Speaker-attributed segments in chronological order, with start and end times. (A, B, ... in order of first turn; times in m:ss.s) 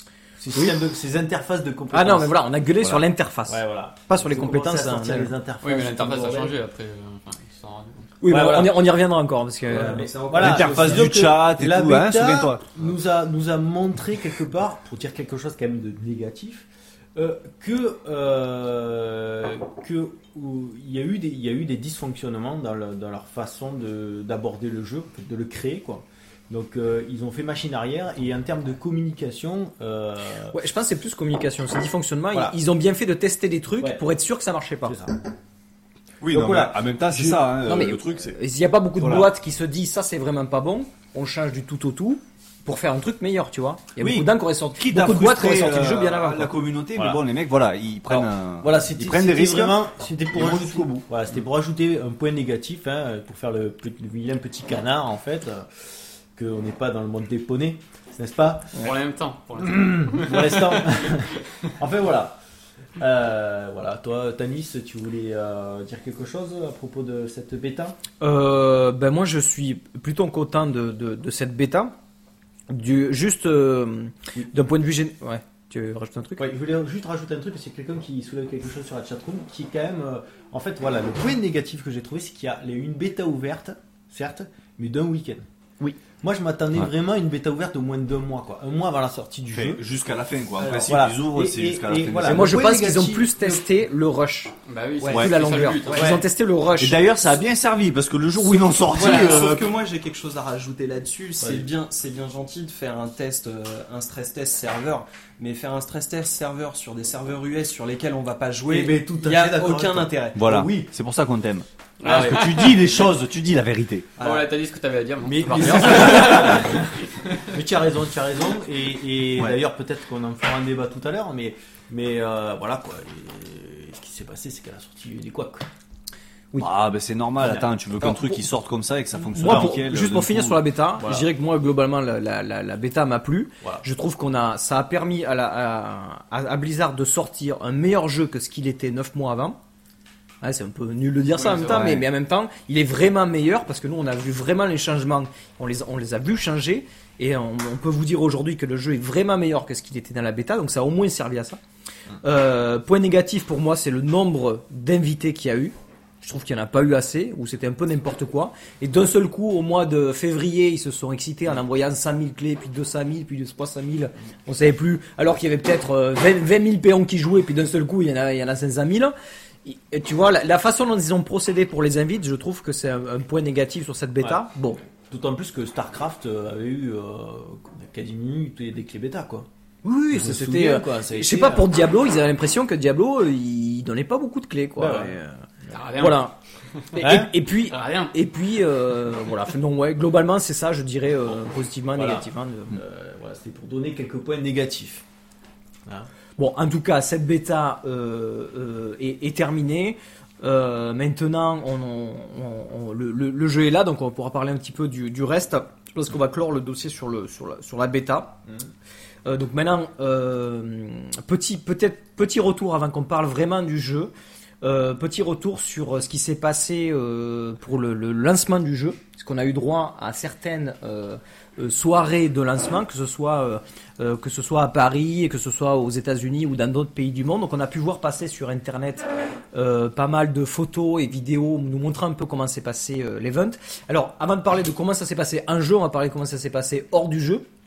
0:00.4-0:06.5 A
0:01.9-0:05.3 B
0:05.6-0:08.2 C
0:08.2-0:10.1 B
0:08.3-0:08.8 A
0:09.7-0:30.6 A
0:09.7-0:11.2 D
0:10.3-0:12.6 E
0:30.5-0:35.0 B
0:34.8-0:35.2 A
0:36.2-0:38.4 E
0:36.3-0:37.4 A
0:37.6-0:46.5 B
0:39.0-0:39.3 E
0:44.0-0:51.1 E
0:48.1-0:58.9 A
0:58.7-1:01.3 C
0:59.6-1:02.4 A
1:03.0-1:08.0 A
1:08.2-1:11.9 B
1:12.7-1:16.4 B
1:16.4-1:25.4 A
1:26.1-1:29.8 A
1:29.5-1:32.6 E
1:30.6-1:30.9 D
1:30.8-1:33.6 A
1:32.2-1:34.5 B
1:34.7-1:36.2 C
1:35.0-1:37.0 B
1:35.1-1:35.3 E
1:35.8-1:36.2 A
1:36.8-1:39.7 E
1:38.9-1:50.5 D
1:41.4-1:41.7 A
1:48.7-1:50.9 A
1:50.3-1:54.1 E
1:52.0-1:52.8 C
1:54.2-1:54.4 D
1:54.2-1:56.9 C
1:55.2-2:05.7 A
2:06.6-2:10.6 E
2:07.4-2:07.7 A
2:08.0-2:08.3 B
2:09.3-2:19.6 B
2:09.3-2:09.8 A
2:11.0-2:11.3 A
2:20.4-2:31.6 B
2:21.4-2:21.8 C
2:21.6-2:22.0 A
2:32.2-2:49.1 B
2:49.6-2:54.8 B
2:55.1-2:59.5 A
2:59.8-3:05.4 B
3:00.1-3:01.7 A
3:04.8-3:05.1 A
3:05.7-3:06.3 C
3:06.0-3:06.3 B
3:06.9-3:12.8 B
3:07.0-3:07.3 A
3:07.6-3:08.1 C
3:11.9-3:15.0 A
3:16.4-3:28.4 B
3:29.2-3:34.1 B
3:34.6-3:57.4 B